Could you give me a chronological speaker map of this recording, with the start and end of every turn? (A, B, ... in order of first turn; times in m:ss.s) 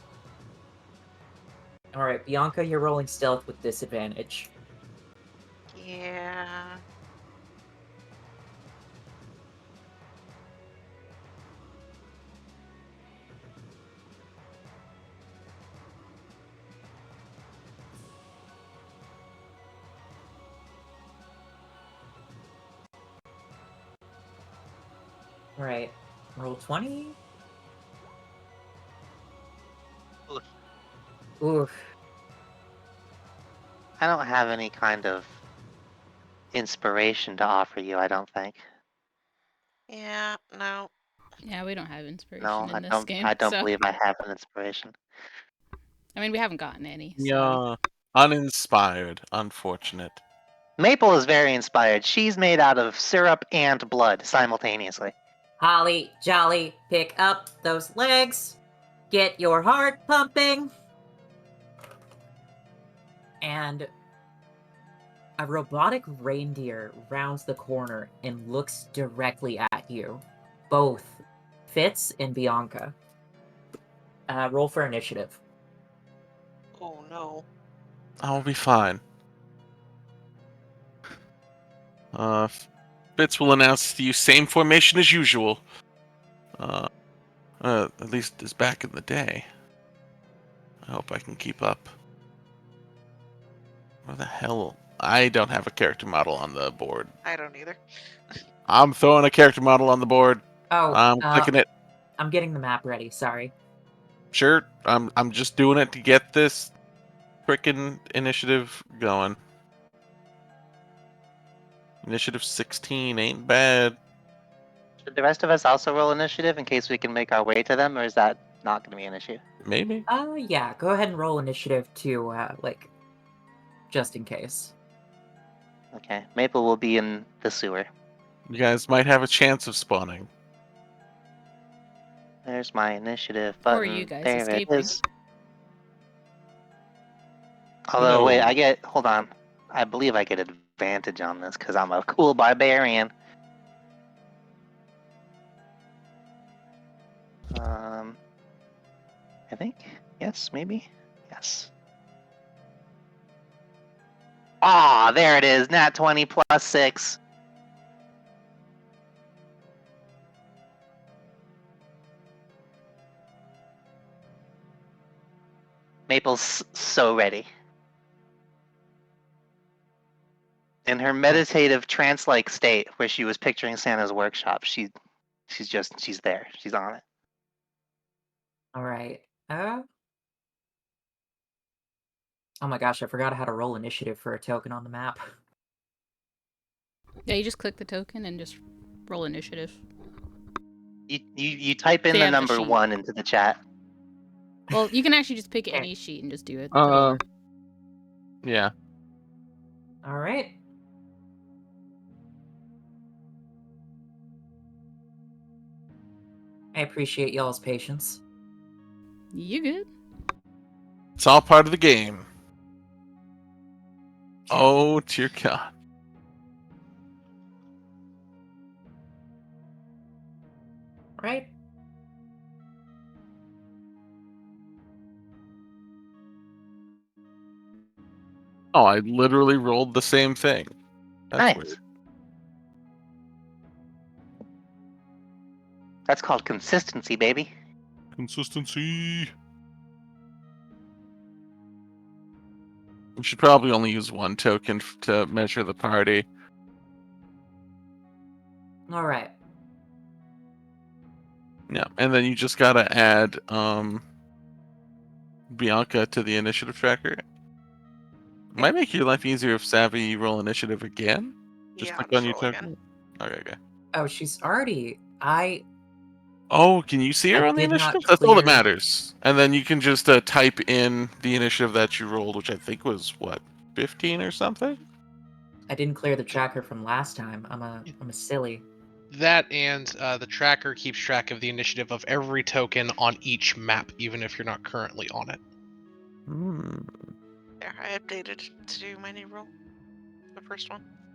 0:01.9-0:04.5 A
0:05.8-0:06.7 B
0:25.6-0:27.2 A
0:31.4-0:31.8 A
0:34.0-0:35.4 C
0:36.5-0:38.6 C
0:39.9-0:40.9 B
0:41.4-0:43.7 D
0:42.4-0:44.9 C
0:46.1-0:47.6 D
0:47.2-0:50.2 E
0:50.8-0:55.1 C
0:55.6-0:58.6 A
0:59.1-1:00.7 A
1:03.4-1:03.9 A
1:05.4-1:13.0 A
1:14.3-1:15.4 A
1:16.8-1:17.4 B
1:18.2-1:19.0 E
1:22.1-1:25.6 E
1:26.6-1:26.9 E
1:27.6-1:29.4 E
1:30.8-1:31.9 E
1:34.0-1:37.1 E
1:37.2-1:37.8 B
1:38.7-1:41.7 E
1:40.7-1:41.5 A
1:42.2-1:43.5 A
1:44.3-1:46.7 E
1:47.4-1:49.4 E
1:52.0-1:54.0 E
1:55.0-1:59.4 C
1:59.6-2:00.0 E
2:00.1-2:02.9 A
2:03.9-2:04.7 A
2:05.9-2:07.9 C
2:08.5-2:10.3 E
2:12.4-2:15.0 C
2:13.7-2:15.0 D
2:17.9-2:23.1 C
2:18.0-2:18.5 E
2:27.5-2:28.2 C
2:29.5-2:31.7 C
2:34.6-2:37.2 C
2:46.1-2:47.5 C
2:50.9-2:54.9 C
2:55.5-2:57.0 C
2:58.7-2:59.8 A
3:02.6-3:05.2 A
3:07.3-3:09.8 D
3:11.1-3:13.6 C
3:12.1-3:12.8 D
3:14.7-3:17.2 D
3:16.7-3:17.2 E
3:18.4-3:18.7 E
3:20.0-3:20.5 A
3:26.7-3:28.2 A
3:29.3-3:29.9 D
3:31.2-3:32.2 E
3:34.5-3:35.7 E
3:41.2-3:41.5 A
3:48.7-3:50.7 E
3:51.3-3:51.8 E
3:51.4-3:51.7 C
3:56.1-3:57.5 C
3:58.2-3:59.3 E
4:03.2-4:06.3 E
4:08.9-4:09.3 A
4:11.7-4:14.0 E
4:15.5-4:17.2 E
4:18.5-4:23.6 E
4:21.8-4:22.7 B
4:23.9-4:25.6 A
4:26.5-4:34.8 E
4:27.3-4:28.6 A
4:35.7-4:38.6 A
4:39.1-4:45.4 F
4:46.3-4:46.9 E
4:47.6-4:49.5 B
4:50.4-4:50.8 B